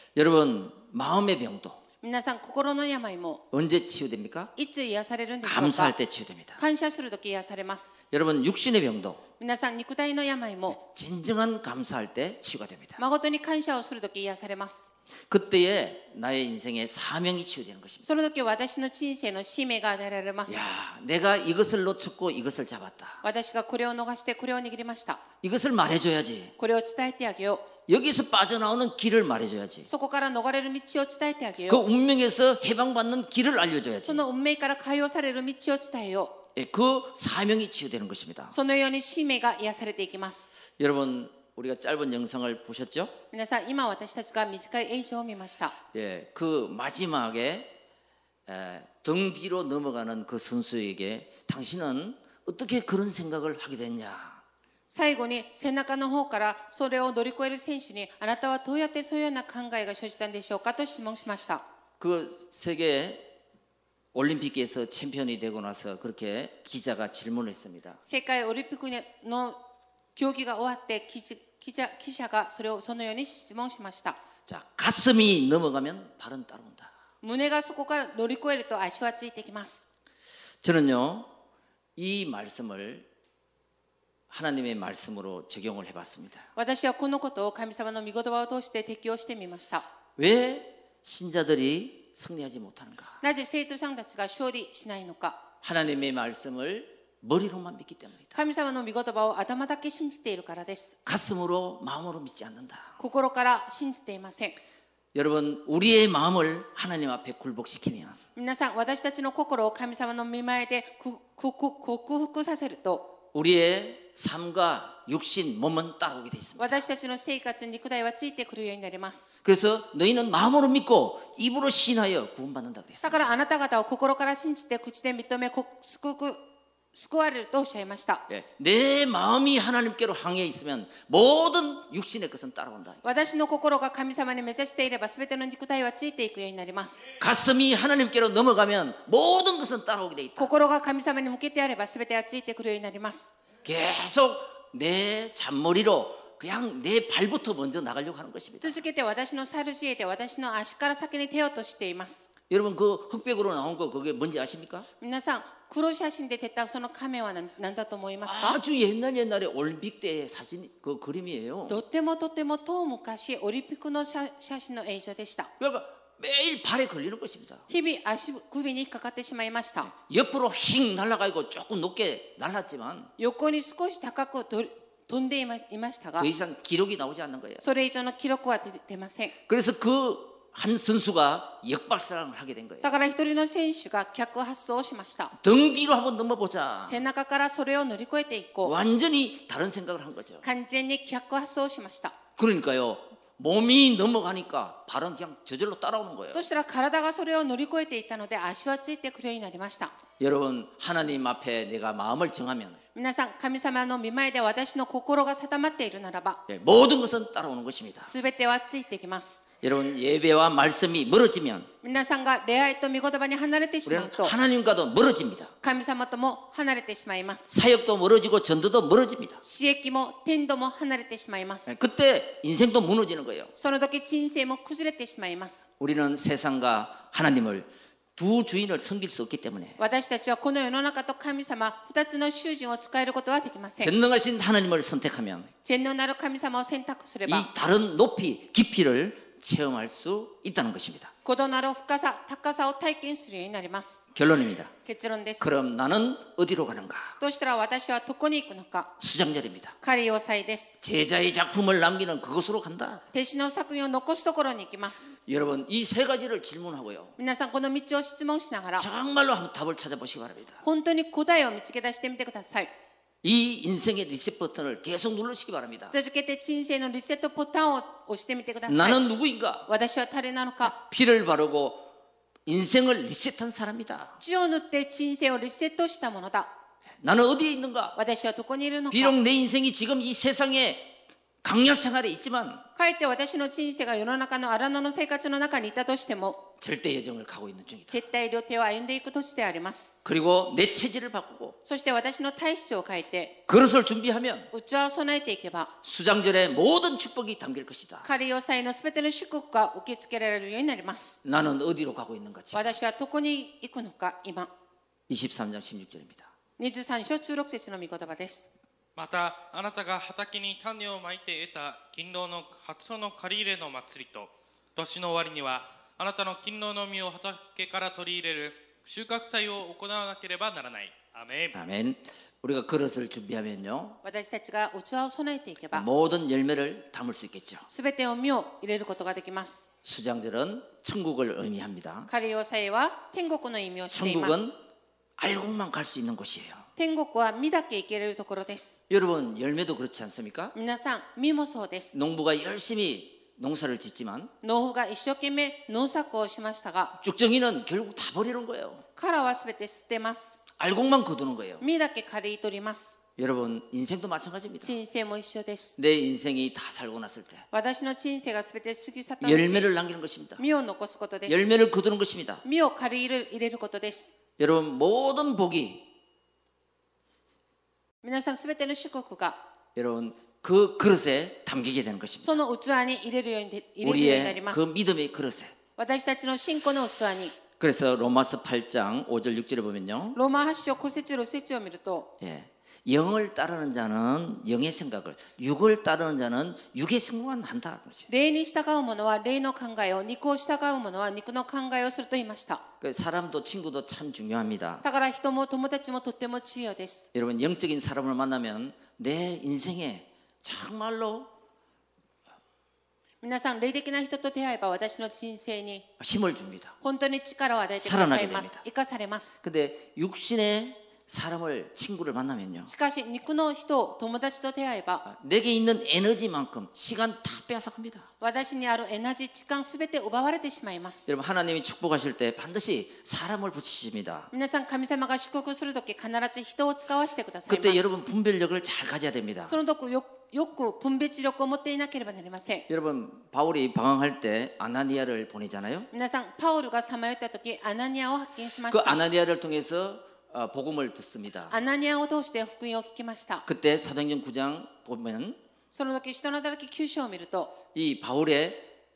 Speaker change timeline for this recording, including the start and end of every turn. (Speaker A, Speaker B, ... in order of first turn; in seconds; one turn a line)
Speaker A: 0.1-1.8
Speaker B: 2.0-3.4
Speaker A: 3.5-4.5
Speaker B: 4.5-6.0
Speaker A: 5.4-6.6
Speaker B: 6.6-7.9
Speaker A: 8.1-9.2
Speaker B: 9.4-10.8
Speaker A: 10.8-13.0
Speaker B: 13.0-14.9
Speaker A: 15.3-18.1
Speaker B: 18.0-20.6
Speaker A: 20.5-23.2
Speaker B: 23.2-25.2
Speaker A: 25.4-26.5
Speaker B: 26.6-27.7
Speaker A: 27.9-29.9
Speaker B: 29.9-31.8
Speaker A: 31.7-34.2
Speaker B: 34.0-36.4
Speaker A: 36.5-38.5
Speaker B: 38.5-40.5
Speaker A: 40.8-43.1
Speaker B: 43.3-45.7
Speaker A: 45.9-47.7
Speaker A: 48.5-54.4
Speaker B: 54.9-61.6
Speaker A: 62.0-63.3
Speaker A: 64.1-68.0
Speaker B: 68.0-69.6
Speaker B: 70.2-74.2
Speaker A: 74.5-76.9
Speaker B: 77.2-79.8
Speaker A: 80.6-81.3
Speaker A: 82.0-83.1
Speaker A: 84.3-86.5
Speaker B: 86.5-89.8
Speaker A: 90.2-93.2
Speaker B: 93.2-95.4
Speaker A: 95.6-98.3
Speaker B: 98.3-101.0
Speaker A: 101.0-103.0
Speaker B: 103.0-104.6
Speaker A: 105.1-108.2
Speaker B: 108.3-113.1
Speaker A: 113.3-116.8
Speaker B: 116.6-119.3
Speaker A: 119.4-123.3
Speaker B: 123.0-126.4
Speaker B: 126.9-128.2
Speaker A: 128.3-133.0
Speaker B: 133.0-137.1
Speaker A: 137.2-140.5
Speaker B: 140.4-143.3
Speaker A: 143.6-148.8
Speaker B: 148.6-152.3
Speaker A: 152.5-154.9
Speaker B: 155.0-158.6
Speaker A: 158.2-161.8
Speaker B: 161.7-165.5
Speaker A: 165.6-167.7
Speaker B: 167.7-169.9
Speaker A: 169.9-173.1
Speaker B: 173.2-176.3
Speaker A: 176.2-177.6
Speaker B: 177.6-179.3
Speaker A: 179.5-182.9
Speaker B: 182.8-185.3
Speaker A: 185.3-187.0
Speaker B: 186.8-188.8
Speaker A: 188.6-190.4
Speaker B: 190.4-192.2
Speaker A: 192.4-196.4
Speaker B: 196.3-199.9
Speaker A: 200.2-202.8
Speaker B: 202.9-206.4
Speaker A: 206.5-208.1
Speaker B: 208.0-209.4
Speaker A: 209.6-211.7
Speaker B: 211.8-214.3
Speaker A: 213.8-215.5
Speaker B: 215.6-217.5
Speaker A: 217.5-219.4
Speaker B: 219.4-221.7
Speaker A: 221.7-223.5
Speaker B: 223.6-225.7
Speaker A: 225.8-229.8
Speaker B: 229.8-233.9
Speaker A: 233.8-235.5
Speaker B: 235.6-237.5
Speaker A: 237.3-241.1
Speaker B: 241.2-244.0
Speaker A: 244.1-244.7
Speaker B: 244.8-245.5
Speaker A: 245.4-247.2
Speaker B: 247.2-248.9
Speaker A: 249.0-249.8
Speaker B: 249.8-250.8
Speaker A: 250.8-253.0
Speaker B: 253.1-255.1
Speaker A: 255.3-257.1
Speaker B: 257.2-258.9
Speaker A: 258.8-260.6
Speaker B: 260.6-262.7
Speaker A: 263.2-265.9
Speaker B: 265.9-269.0
Speaker A: 268.7-269.7
Speaker B: 269.7-270.7
Speaker A: 270.6-271.9
Speaker A: 272.4-274.2
Speaker B: 274.2-276.5
Speaker A: 277.0-278.0
Speaker B: 277.9-279.1
Speaker A: 278.9-282.6
Speaker B: 282.8-286.4
Speaker A: 286.6-288.0
Speaker B: 287.9-289.9
Speaker A: 290.0-291.6
Speaker B: 291.6-293.4
Speaker A: 293.5-294.5
Speaker B: 294.5-295.7
Speaker A: 295.8-298.1
Speaker B: 298.0-301.2
Speaker A: 301.2-302.8
Speaker B: 302.5-304.5
Speaker A: 305.1-306.3
Speaker B: 306.6-308.5
Speaker C: 308.9-321.6
Speaker A: 321.5-324.0
Speaker B: 324.0-325.9
Speaker A: 325.7-327.7
Speaker B: 327.7-329.6
Speaker A: 329.8-332.1
Speaker B: 332.1-334.4
Speaker A: 333.9-334.6
Speaker A: 335.2-336.7
Speaker B: 336.8-338.8
Speaker A: 338.9-340.5
Speaker B: 340.5-341.9
Speaker A: 341.9-344.3
Speaker B: 344.4-346.9
Speaker A: 347.0-348.8
Speaker B: 348.9-350.4
Speaker A: 350.6-351.6
Speaker B: 351.6-352.9
Speaker A: 353.2-354.7
Speaker B: 354.6-355.8
Speaker A: 355.8-357.5
Speaker B: 357.5-359.7
Speaker A: 359.2-360.4
Speaker B: 360.4-361.5
Speaker A: 361.3-362.4
Speaker B: 362.4-364.1
Speaker A: 364.4-365.9
Speaker B: 368.0-369.4
Speaker A: 369.8-372.4
Speaker B: 372.2-374.7
Speaker A: 373.8-375.5
Speaker B: 375.8-377.4
Speaker A: 377.6-380.2
Speaker B: 380.1-382.1
Speaker A: 382.2-388.1
Speaker B: 388.1-392.6
Speaker A: 392.8-394.8
Speaker B: 394.8-397.1
Speaker A: 397.1-401.3
Speaker B: 403.2-405.9
Speaker A: 406.0-406.8
Speaker B: 406.8-409.4
Speaker A: 407.8-408.6
Speaker A: 409.4-412.7
Speaker B: 412.7-415.0
Speaker A: 415.0-418.1
Speaker B: 418.2-421.1
Speaker A: 421.1-424.3
Speaker B: 424.3-427.9
Speaker A: 427.5-429.6
Speaker B: 429.5-432.7
Speaker A: 432.7-435.9
Speaker B: 435.9-439.0
Speaker A: 438.7-441.6
Speaker B: 441.5-443.4
Speaker A: 443.4-445.4
Speaker B: 445.7-447.5
Speaker A: 447.7-448.7